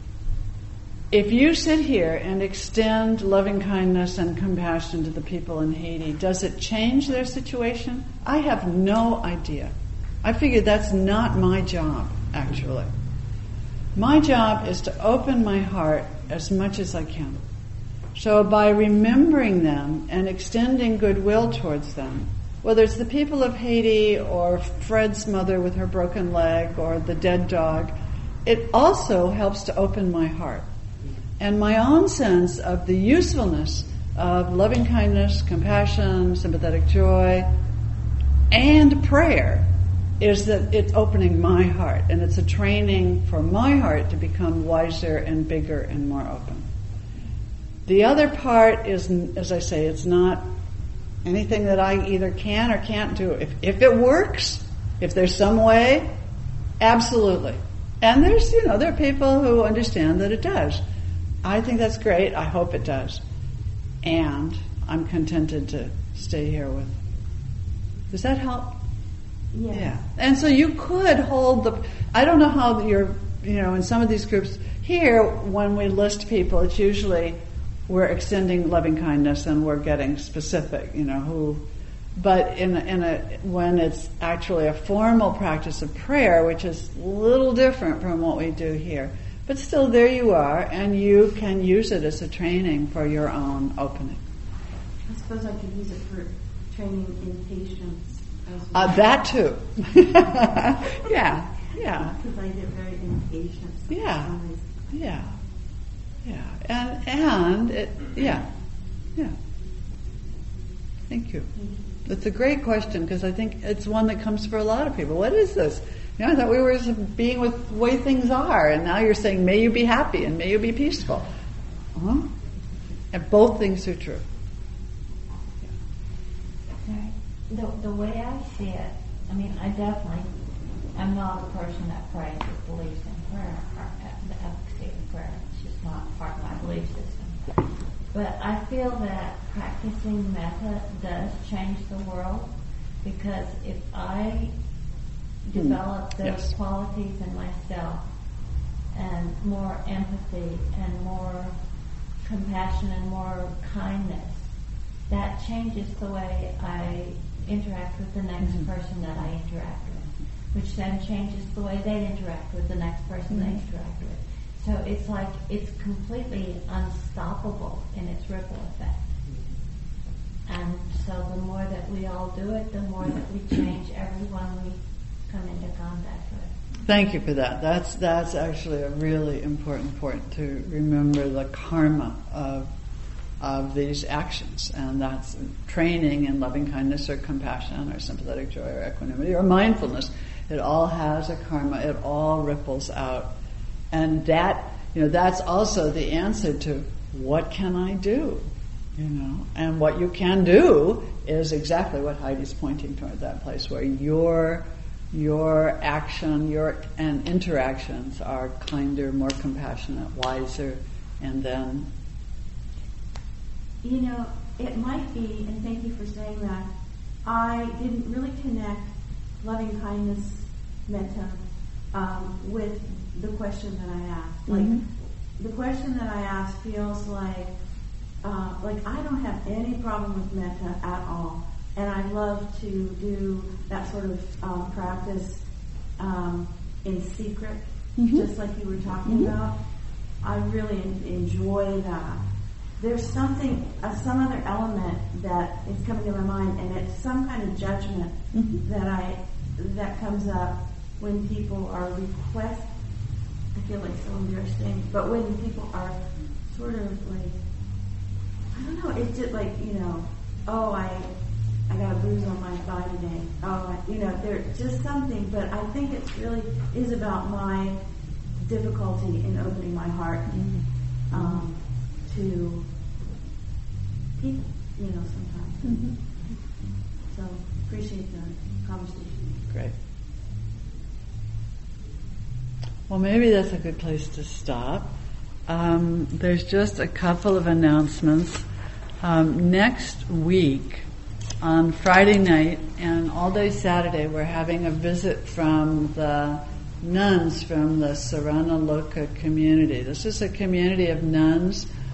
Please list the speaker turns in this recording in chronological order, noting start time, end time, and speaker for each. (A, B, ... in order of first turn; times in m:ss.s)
0:01.1-0:12.9 A
0:13.9-0:17.4 A
0:18.1-0:27.9 A
0:28.4-0:30.6 A
0:31.4-0:37.5 A
0:38.5-0:39.7 A
0:40.2-0:46.7 A
0:47.8-0:50.5 A
0:51.2-0:56.1 A
0:56.8-1:00.8 A
1:01.4-1:03.2 A
1:04.0-1:07.0 A
1:08.1-1:08.8 A
1:09.5-1:10.0 B
1:09.7-1:21.6 A
1:22.2-1:34.2 A
1:35.1-1:39.1 B
1:38.7-1:42.2 A
1:42.1-1:44.9 B
1:43.9-1:44.3 A
1:44.9-1:45.3 A
1:46.2-1:48.5 A
1:51.1-1:51.5 A
1:52.0-2:01.3 A
2:01.9-2:02.3 A
2:03.1-2:04.2 A
2:06.8-2:10.3 C
2:10.9-2:17.5 C
2:18.1-2:22.5 C
2:23.0-2:24.5 C
2:25.4-2:28.0 C
2:25.5-2:26.5 A
2:28.9-2:31.6 C
2:32.2-2:34.4 C
2:35.1-2:49.0 C
2:43.3-2:43.6 A
2:50.4-2:56.5 C
2:56.8-3:02.7 A
3:03.4-3:13.3 A
3:13.9-3:31.9 A
3:33.8-3:36.7 B
3:37.2-3:41.4 B
3:41.9-3:44.8 B
3:44.5-3:44.8 A
3:45.4-3:47.5 B
3:48.2-3:55.4 B
3:56.0-3:59.6 B
3:58.0-3:58.3 A
3:59.0-3:59.3 A
4:00.2-4:02.2 B
4:02.8-4:12.7 B
4:08.3-4:08.6 A
4:13.5-4:17.4 B
4:18.5-4:21.1 B
4:21.7-4:27.8 B
4:28.4-4:30.6 B
4:30.3-4:31.4 A
4:31.1-4:32.6 B
4:34.2-4:35.9 B
4:35.6-4:36.0 A
4:37.1-4:39.2 B
4:42.9-4:44.9 A
4:45.5-4:48.4 A
4:49.0-4:50.9 A
4:51.4-5:01.7 A